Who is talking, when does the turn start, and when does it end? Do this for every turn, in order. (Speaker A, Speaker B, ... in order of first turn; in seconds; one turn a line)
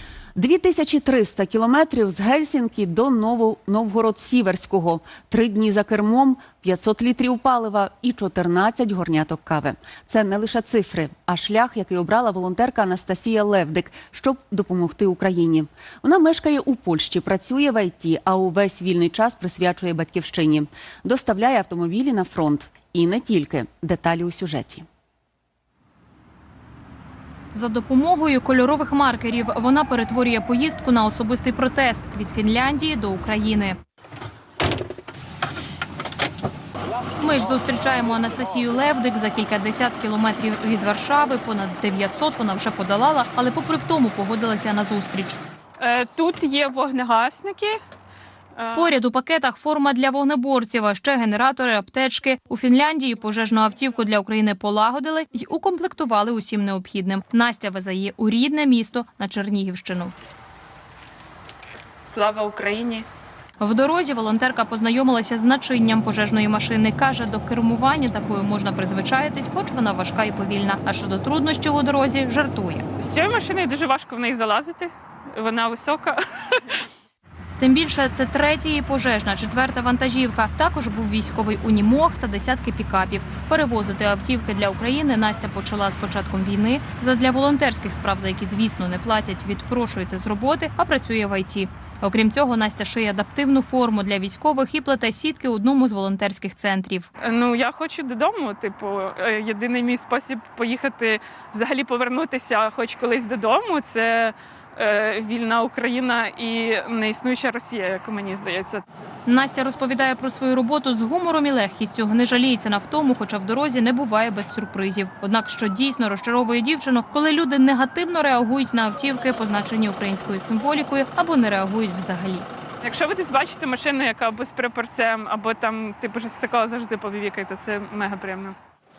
Speaker A: 0.3-24.9
Speaker B: 27.5-33.8
Speaker B: 37.2-45.4
Speaker C: 45.8-47.8
Speaker B: 48.7-60.1
Speaker C: 62.1-63.0
Speaker B: 63.6-72.8
Speaker C: 73.0-76.2
Speaker B: 77.6-97.1
Speaker C: 97.3-108.8
Speaker B: 109.3-122.5
Speaker C: 122.8-128.6